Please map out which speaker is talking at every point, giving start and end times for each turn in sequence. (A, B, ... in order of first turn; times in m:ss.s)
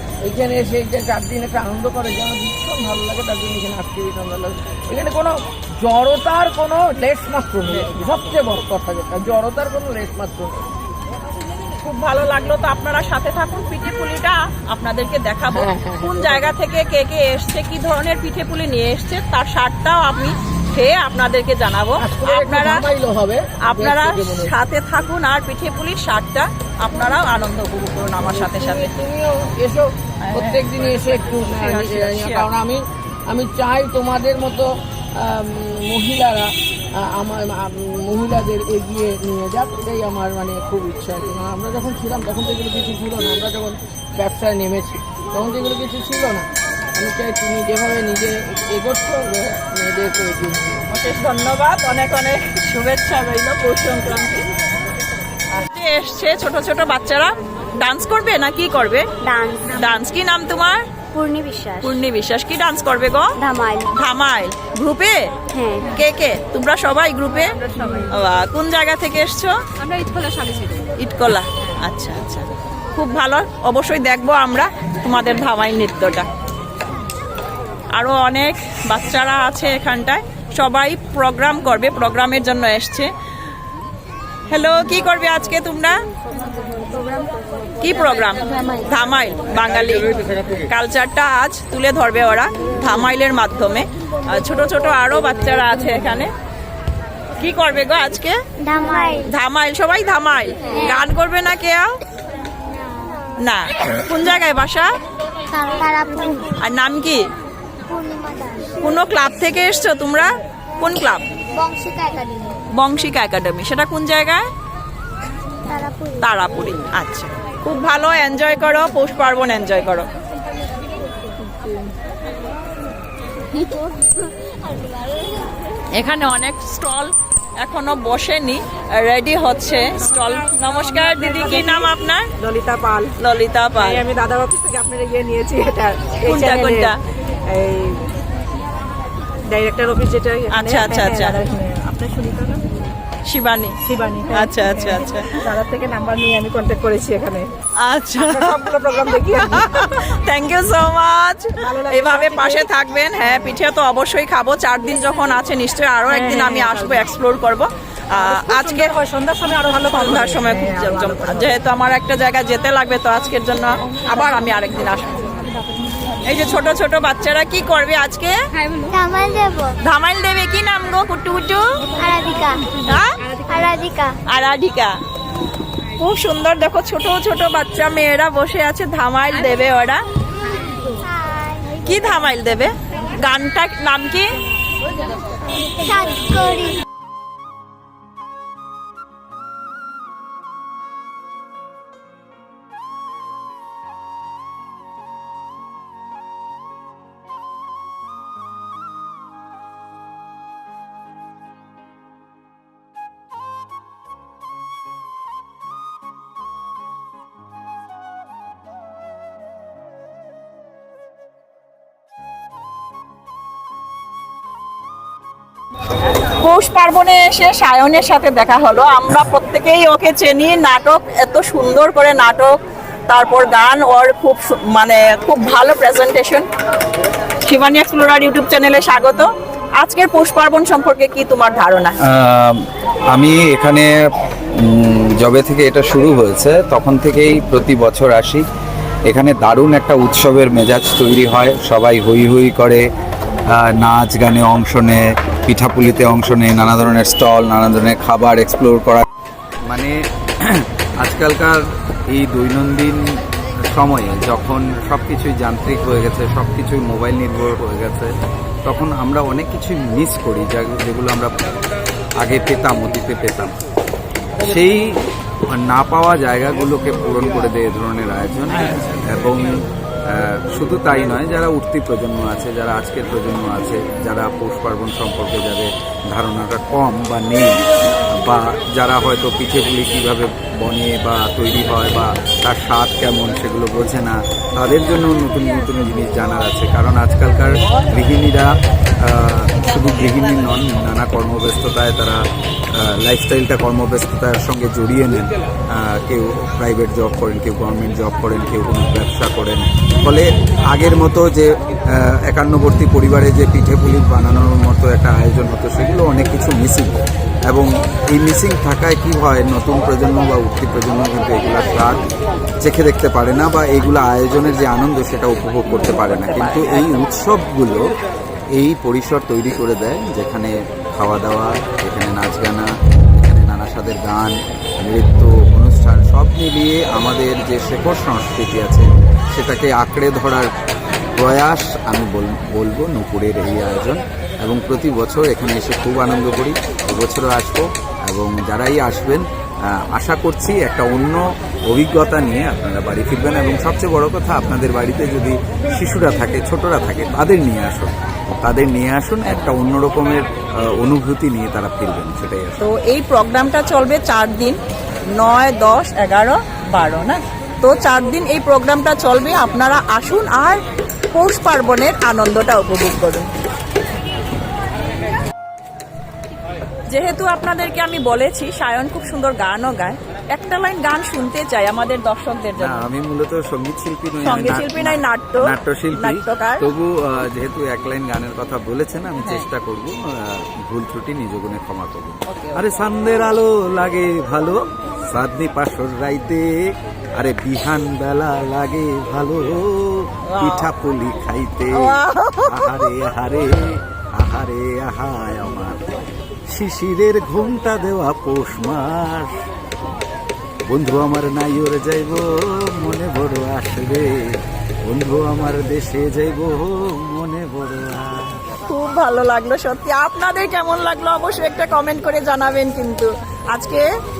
0:00.2-0:10.7 A
0:07.7-0:08.2 B
0:11.8-0:22.8 B
0:15.5-0:16.5 A
0:22.0-0:24.6 A
0:23.6-0:28.9 B
0:28.2-0:34.6 A
0:30.2-0:30.6 B
0:31.6-0:32.5 B
0:35.2-0:50.8 A
0:50.9-0:54.4 B
0:55.6-0:59.0 B
0:59.2-0:59.7 C
0:59.7-1:00.8 B
1:01.1-1:01.9 C
1:01.8-1:03.3 B
1:03.4-1:03.9 C
1:04.0-1:05.3 B
1:05.5-1:05.9 C
1:05.9-1:09.5 B
1:07.7-1:08.1 D
1:09.8-1:10.8 D
1:10.9-1:16.3 B
1:17.9-1:23.1 B
1:24.5-1:26.0 B
1:27.8-1:36.3 B
1:37.4-1:38.4 B
1:38.6-1:39.2 C
1:39.0-1:42.0 B
1:43.4-1:44.9 B
1:45.5-1:46.6 C
1:46.6-1:47.2 B
1:47.9-1:48.8 C
1:48.8-1:51.2 B
1:51.5-1:52.6 C
1:52.8-1:54.5 B
1:55.7-1:56.2 C
1:56.2-2:00.1 B
2:05.9-2:07.1 B
2:07.6-2:12.3 B
2:11.0-2:13.1 D
2:13.2-2:14.0 B
2:13.8-2:18.1 D
2:16.2-2:17.0 B
2:19.4-2:22.7 D
2:20.5-2:21.4 B
2:23.2-2:23.8 B
2:23.8-2:27.5 D
2:24.3-2:25.4 B
2:27.8-2:38.9 B
2:28.2-2:29.8 D
2:31.6-2:32.7 D
2:33.2-2:33.5 D
2:36.1-2:37.0 D
2:38.2-2:41.5 D
2:39.9-2:45.4 B
2:46.2-2:48.3 B
2:48.9-2:49.8 C
2:49.8-2:51.9 B
2:52.0-2:52.8 C
2:52.8-2:53.2 B
2:53.4-2:54.2 C
2:54.3-2:54.9 B
2:56.0-3:00.0 B
3:01.0-3:01.7 C
3:01.7-3:04.4 B
3:05.7-3:06.8 C
3:36.4-3:42.6 B
3:43.1-3:46.4 B
3:47.5-3:51.9 B
3:52.1-3:53.9 E
3:54.6-3:58.4 E
3:59.0-4:02.8 E
4:03.5-4:09.0 E
4:09.6-4:11.6 E
4:12.1-4:13.0 E
4:13.7-4:18.1 E
4:18.6-4:21.3 E
4:22.2-4:23.6 E
4:24.4-4:25.0 E
4:25.5-4:29.5 E
4:30.1-4:48.5 E
4:49.0-5:12.0 E
5:12.6-5:17.9 E
5:16.3-5:16.8 B
5:18.5-5:22.7 E
5:23.2-5:30.5 E
5:31.2-5:52.6 E
5:49.3-5:49.5 B
5:52.6-5:54.6 B
5:55.1-6:00.6 B
6:01.1-6:03.3 B
6:06.9-6:12.9 B
6:12.6-6:26.4 E
6:14.2-6:16.6 B
6:22.3-6:22.6 B
6:27.1-6:33.6 E
6:30.3-6:30.7 B
6:31.7-6:32.9 B
6:34.2-6:35.8 E
6:36.5-6:39.3 E
6:40.7-6:44.1 E
6:44.8-6:48.4 E
6:48.6-6:53.8 B